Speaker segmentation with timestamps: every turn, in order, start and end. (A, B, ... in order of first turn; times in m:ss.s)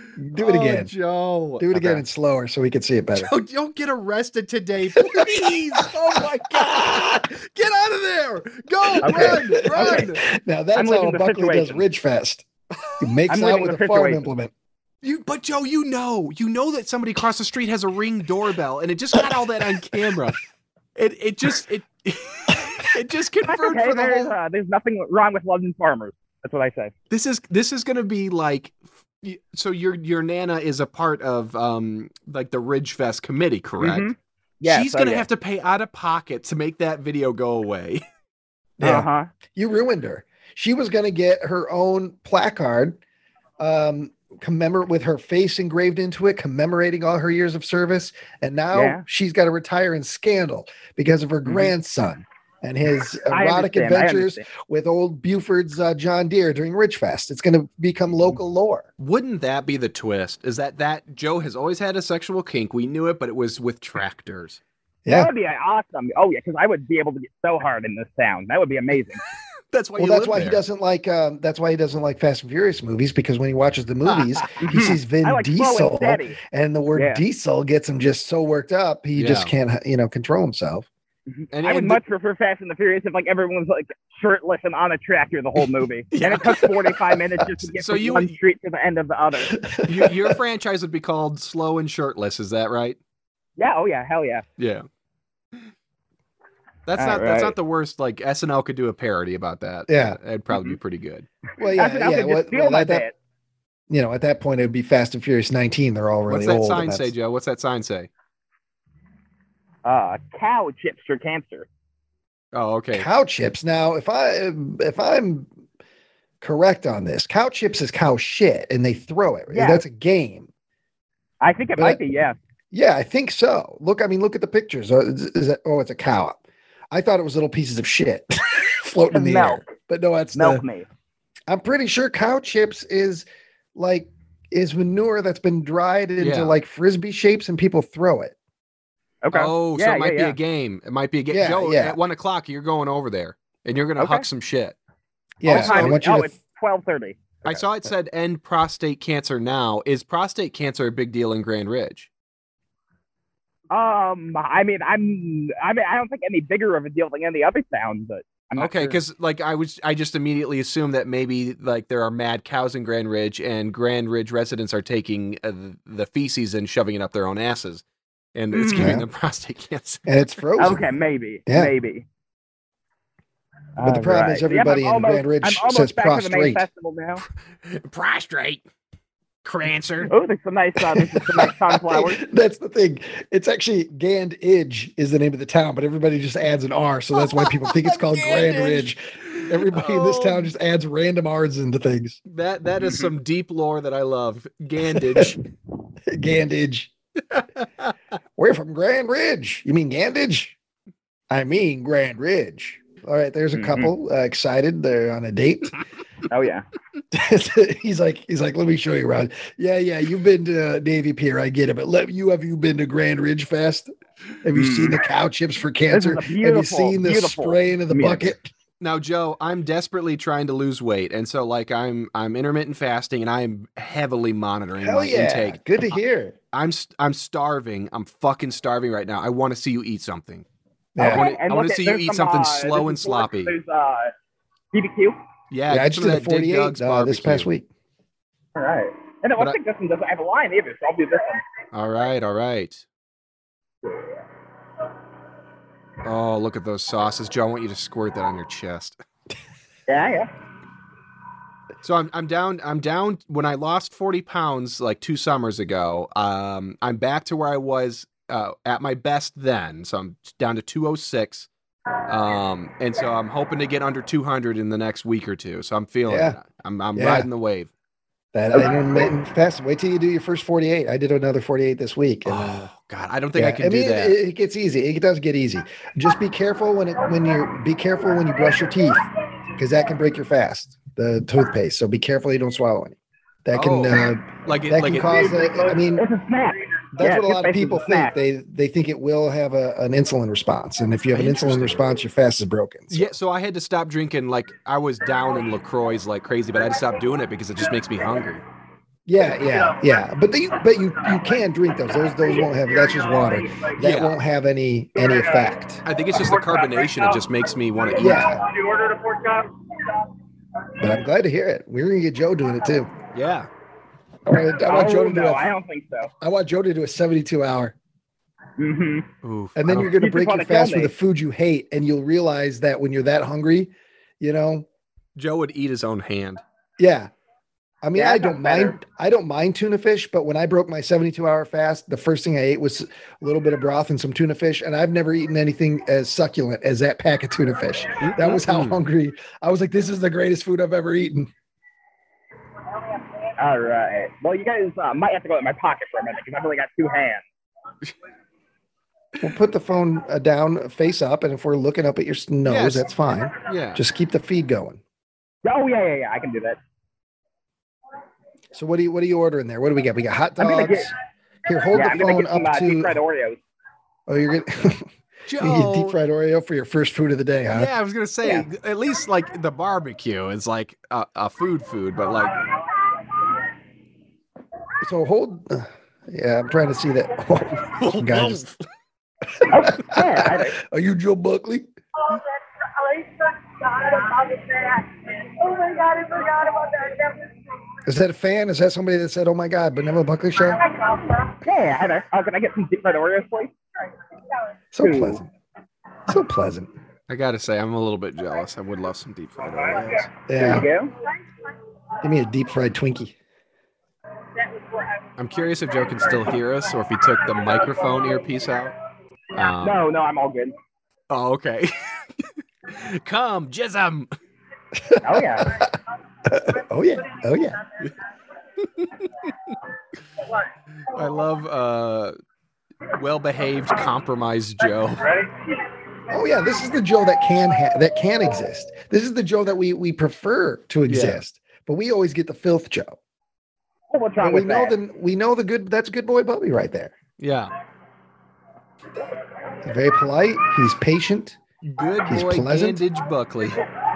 0:00.2-0:00.9 A
0:00.4-0:02.0 B
0:01.6-0:03.3 A
0:03.2-0:10.2 B
0:04.9-0:07.3 A
0:09.0-0:12.4 A
0:09.0-0:10.1 C
0:10.8-0:11.8 C
0:13.0-0:14.5 A
0:13.3-0:14.2 C
0:15.0-0:20.4 B
0:19.2-0:20.2 A
0:21.0-0:24.3 B
0:23.4-0:26.9 C
0:27.1-0:34.1 B
0:33.8-0:35.2 C
0:34.6-0:38.0 B
0:38.8-0:43.0 A
0:38.8-0:39.3 C
0:43.6-0:58.9 A
0:48.7-0:49.0 C
0:51.4-0:51.7 C
0:53.3-0:54.5 C
0:59.0-1:04.6 B
1:05.1-1:09.2 C
1:09.7-1:10.6 B
1:10.0-1:20.9 A
1:14.6-1:16.4 C
1:17.0-1:17.2 C
1:19.2-1:19.5 B
1:21.3-1:29.6 C
1:21.5-1:22.0 B
1:26.1-1:28.4 B
1:29.5-1:30.4 A
1:29.8-1:33.0 B
1:33.6-1:34.4 C
1:34.6-1:34.9 B
1:36.9-1:41.3 B
1:37.0-1:37.6 C
1:39.9-1:40.2 A
1:41.6-1:43.0 A
1:41.7-1:43.1 C
1:43.9-1:47.1 A
1:46.3-1:48.1 B
1:49.8-1:51.7 C
1:52.5-1:53.1 B
1:52.9-1:55.5 A
1:56.4-2:00.5 A
1:59.5-1:59.8 C
2:01.4-2:02.4 C
2:02.7-2:10.6 A
2:09.1-2:09.7 C
2:10.4-2:10.9 C
2:11.5-2:18.4 A
2:16.2-2:16.6 B
2:19.2-2:20.4 C
2:19.3-2:24.8 B
2:21.3-2:22.0 A
2:24.0-2:24.3 C
2:25.4-2:26.3 A
2:25.4-2:26.0 B
2:25.4-2:27.2 C
2:27.4-2:32.1 B
2:33.7-2:39.0 C
2:38.6-2:47.8 B
2:48.4-2:50.1 B
2:48.5-2:48.9 C
2:48.8-2:49.1 A
2:50.1-2:50.8 A
2:50.6-2:52.1 C
2:51.5-2:51.7 A
2:53.8-2:57.2 C
2:53.8-2:56.6 A
2:57.6-2:58.6 B
2:59.4-3:00.1 B
3:00.1-3:02.2 C
3:01.7-3:12.2 A
3:07.2-3:10.5 B
3:12.3-3:15.4 B
3:15.0-3:15.3 A
3:16.1-3:16.9 A
3:17.3-3:17.9 B
3:18.4-3:20.6 A
3:21.3-3:25.8 A
3:23.5-3:23.9 C
3:26.3-3:26.7 C
3:27.1-3:33.9 A
3:34.4-3:38.5 A
3:34.5-3:35.0 C
3:35.9-3:38.3 C
3:38.8-3:45.6 B
3:44.8-3:46.4 A
3:46.5-3:50.4 B
3:51.0-3:51.2 A
3:51.0-3:54.1 C
3:51.0-3:53.6 B
3:54.7-3:55.2 C
3:55.5-3:57.5 B
3:55.7-3:57.7 A
3:58.6-4:01.4 C
4:01.7-4:02.8 B
4:06.0-4:09.0 B
4:09.9-4:10.3 C
4:11.8-4:21.5 B
4:22.1-4:27.7 B
4:26.1-4:26.4 A
4:27.0-4:27.3 A
4:28.3-4:32.7 A
4:32.3-4:34.2 B
4:33.4-4:46.0 A
4:43.5-4:45.5 B
4:46.0-4:48.1 C
4:46.9-4:53.1 A
4:51.1-4:51.8 B
4:52.9-4:58.4 B
4:59.1-5:05.8 A
5:03.8-5:04.2 B
5:05.8-5:08.4 B
5:08.0-5:08.5 A
5:08.7-5:09.5 D
5:10.8-5:12.9 A
5:13.1-5:13.5 B
5:14.3-5:15.5 A
5:14.7-5:16.1 C
5:16.2-5:17.8 A
5:18.6-5:19.1 C
5:19.2-5:19.9 B
5:19.6-5:24.7 A
5:19.8-5:20.9 C
5:25.2-5:26.4 B
5:26.8-5:27.1 A
5:27.8-5:41.3 A
5:28.0-5:28.8 C
5:38.0-5:38.8 B
5:43.4-5:47.2 C
5:49.2-5:54.8 A
5:52.4-5:52.9 B
5:53.4-5:53.8 B
5:55.4-5:56.6 C
5:58.5-6:00.9 A
6:00.4-6:00.9 C
6:01.5-6:03.0 A
6:01.7-6:03.4 C
6:04.1-6:07.7 A
6:05.3-6:06.0 B
6:07.5-6:12.4 B
6:14.8-6:18.4 A
6:17.7-6:18.6 B
6:19.4-6:21.7 A
6:19.5-6:20.6 C
6:22.1-6:27.4 D
6:27.8-6:30.6 A
6:30.5-6:31.4 D
6:31.4-6:33.5 C
6:34.7-6:35.3 A
6:34.8-6:35.2 C
6:36.1-6:36.7 A
6:37.1-6:40.1 B
6:40.3-6:40.7 A
6:40.4-6:40.9 C
6:42.0-6:43.2 A
6:44.4-6:45.0 D
6:45.2-6:48.7 B
6:49.3-6:49.8 B
6:49.6-6:50.6 C
6:51.1-6:54.1 B
6:54.7-6:57.6 A
6:55.0-6:55.5 C
6:58.6-6:59.6 B
7:00.8-7:02.2 B
7:02.9-7:05.1 B
7:06.1-7:13.0 A
7:10.9-7:11.2 B
7:13.9-7:14.8 C
7:14.2-7:17.0 A
7:17.2-7:17.5 B
7:19.6-7:21.4 A
7:21.6-7:23.6 B
7:22.1-7:22.8 A